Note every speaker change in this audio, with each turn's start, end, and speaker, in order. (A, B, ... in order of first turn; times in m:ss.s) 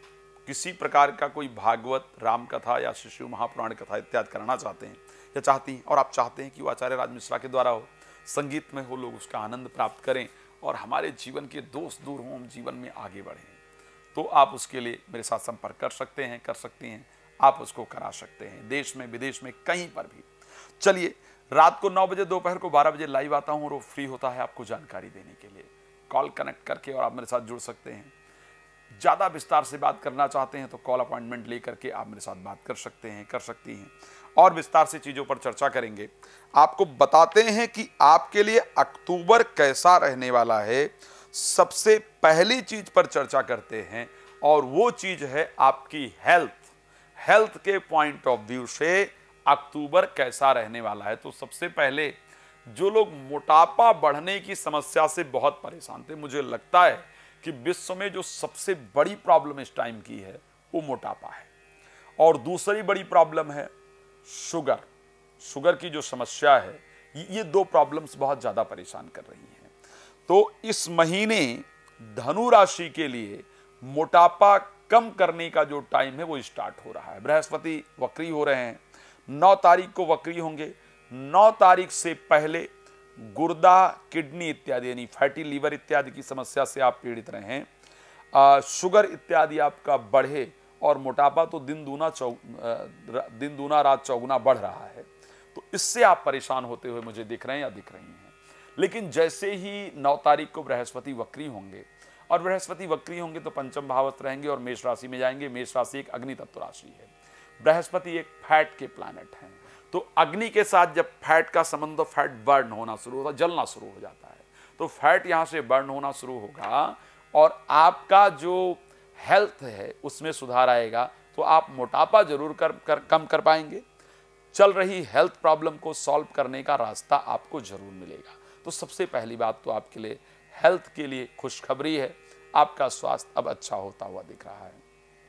0:00.4-0:13.6 A
0:14.1-0:20.3 A
0:20.8-0:28.1 A
0:28.9-1:01.5 A
1:02.2-1:03.7 A
1:04.2-1:04.9 A
1:05.4-1:09.7 A
1:10.3-1:27.7 A
1:28.3-2:03.8 A
2:04.5-2:14.8 A